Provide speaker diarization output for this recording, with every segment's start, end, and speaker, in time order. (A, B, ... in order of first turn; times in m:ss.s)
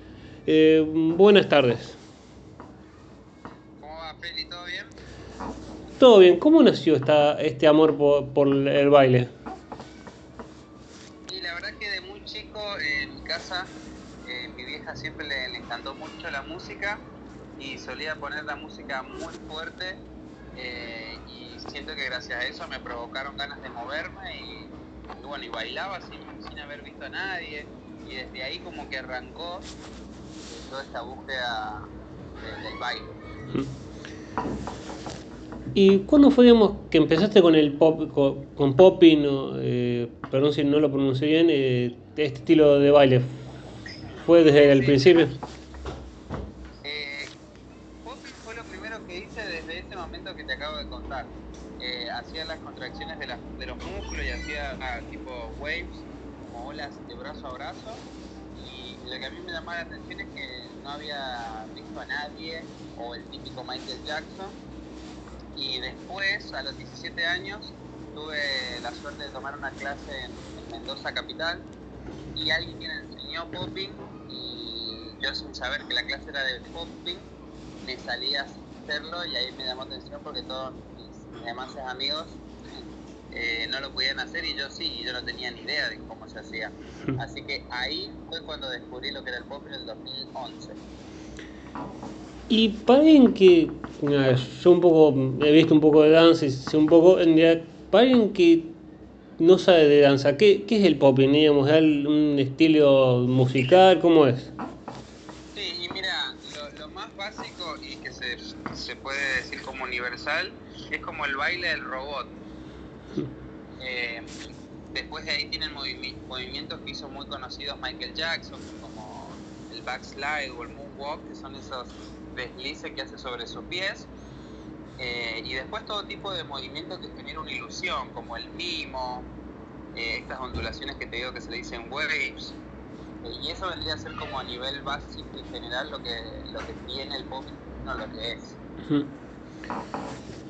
0:00.4-0:02.0 A
0:03.8-0:04.9 B
0:06.0-0:09.3 A
0:11.3-0:13.7 B
0:14.2-0:17.0 B
0:17.6-0:20.0 B
0:20.5-0:29.7 B
0:30.5-0:33.2 B
0:35.7-0:43.4 A
0:44.2-0:45.3 A
0:44.4-0:45.2 B
0:46.8-0:47.3 B
0:48.0-0:58.0 B
0:58.5-1:04.6 B
1:05.5-1:11.7 B
1:12.3-1:17.2 B
1:17.8-1:22.4 B
1:23.3-1:30.8 B
1:32.5-1:38.7 A
1:39.4-1:44.5 A
1:45.5-1:52.3 B
1:53.8-1:54.3 B
1:54.9-2:04.1 B
2:05.0-2:09.3 B
2:09.9-2:12.6 B
2:13.2-2:18.6 B